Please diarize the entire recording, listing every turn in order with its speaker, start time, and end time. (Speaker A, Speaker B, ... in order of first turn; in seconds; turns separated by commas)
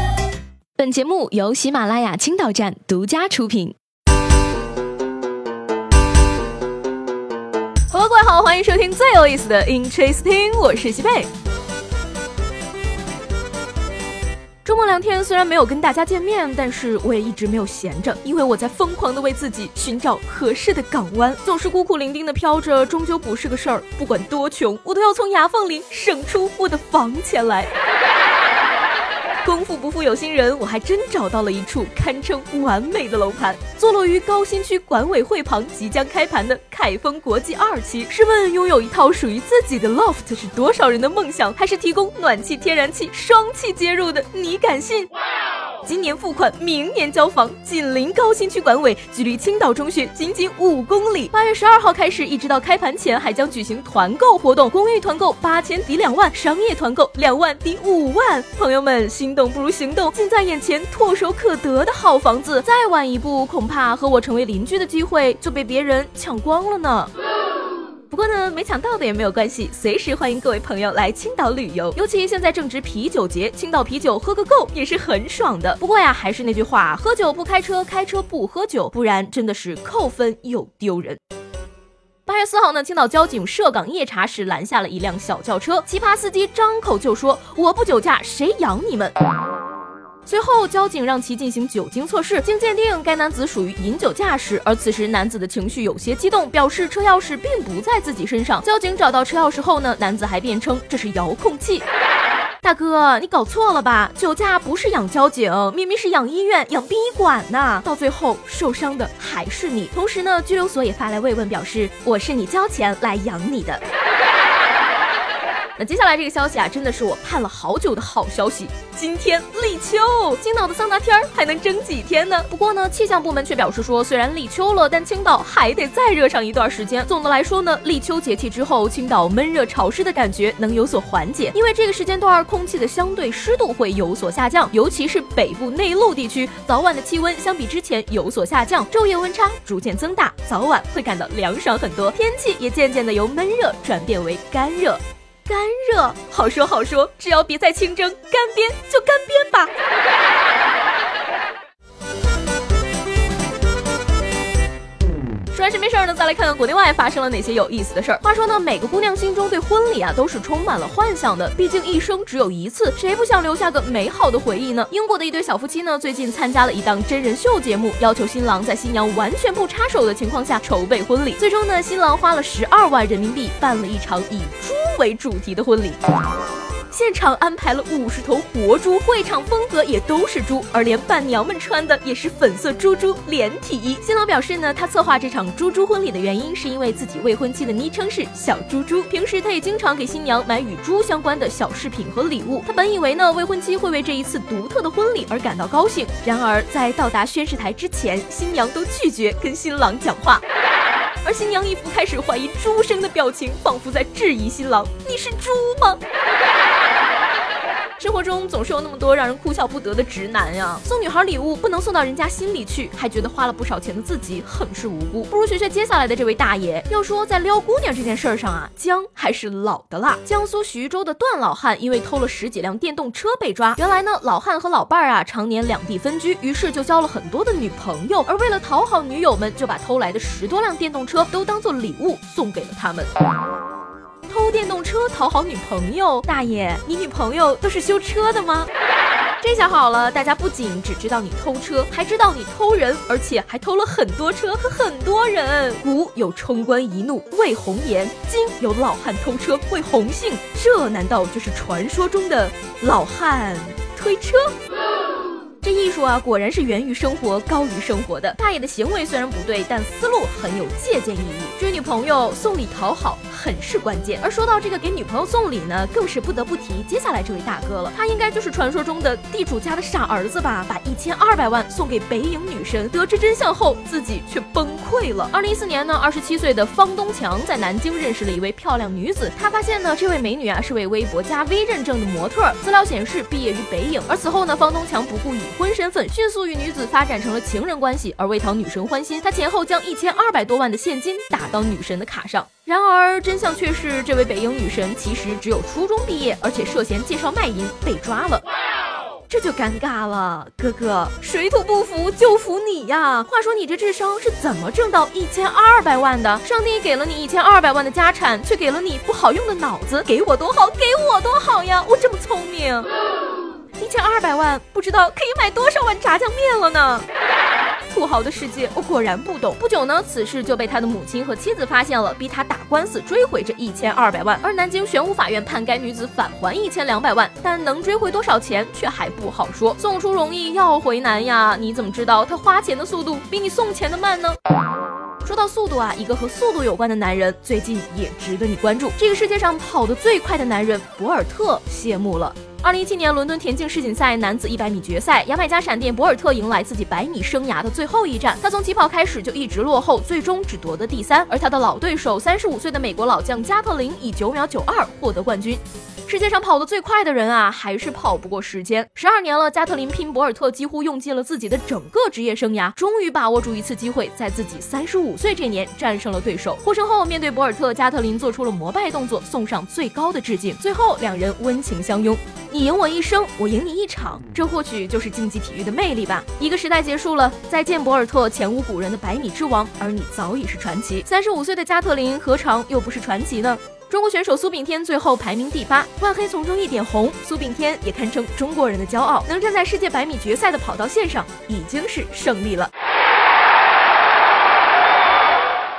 Speaker A: 0.8-3.8, Speaker A: 7.9-11.3, Speaker A: 14.6-27.7, Speaker A: 29.4-45.1, Speaker A: 45.8-67.1, Speaker A: 68.1-81.2, Speaker A: 82.2-89.1, Speaker A: 90.2-101.8, Speaker A: 102.6-113.8, Speaker A: 115.8-149.7, Speaker A: 155.5-176.0, Speaker A: 176.9-200.4, Speaker A: 201.2-206.0, Speaker A: 208.0-233.1, Speaker A: 234.3-238.7, Speaker A: 239.4-254.5, Speaker A: 255.6-298.4, Speaker A: 299.3-312.9, Speaker A: 313.8-317.0, Speaker A: 317.9-334.4, Speaker A: 335.2-392.7